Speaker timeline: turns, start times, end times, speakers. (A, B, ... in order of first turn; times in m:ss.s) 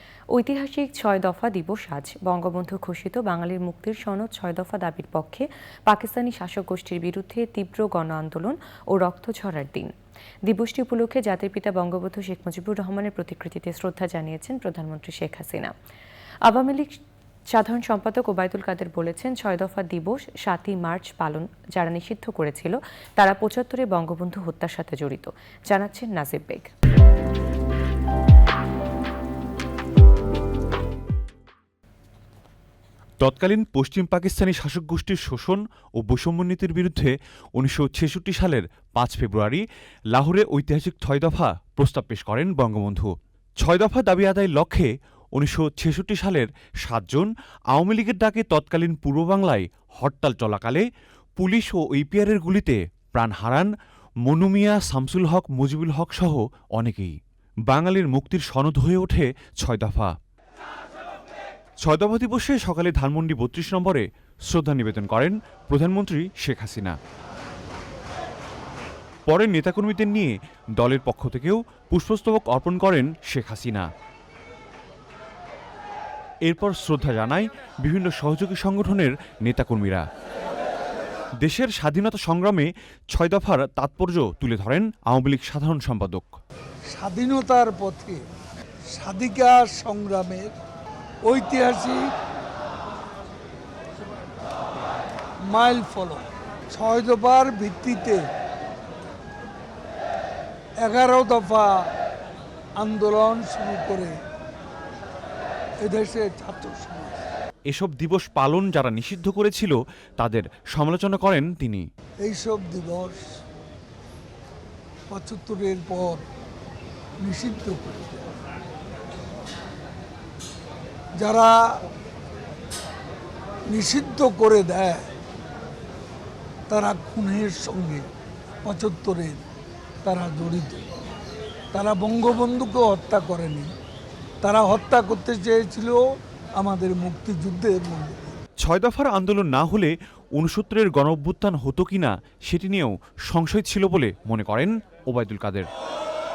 0:00.3-0:09.9 A
0:10.4-0:15.7 A
0:16.5-0:16.9 A
0:17.5-0:26.7 A
0:33.2-0:50.8 B
0:51.4-0:53.7 B
0:54.2-0:57.1 B
0:57.7-1:00.1 B
1:01.8-1:07.0 B
1:09.2-1:13.9 B
1:16.4-1:20.0 B
1:21.4-1:26.3 B
1:26.9-1:28.2 C
1:28.9-1:30.5 C
1:31.2-1:32.0 C
1:35.5-1:38.2 C
1:40.8-1:41.7 C
1:42.8-1:44.1 C
1:45.8-1:47.2 C
1:47.7-1:51.8 B
1:52.2-1:53.2 C
1:55.1-1:56.2 C
1:57.2-1:58.2 C
2:01.2-2:01.5 C
2:03.7-2:05.0 C
2:06.7-2:08.0 C
2:08.6-2:09.4 C
2:10.0-2:10.8 C
2:11.7-2:13.7 C
2:14.4-2:16.0 C
2:16.6-2:18.3 C
2:18.6-2:25.7 B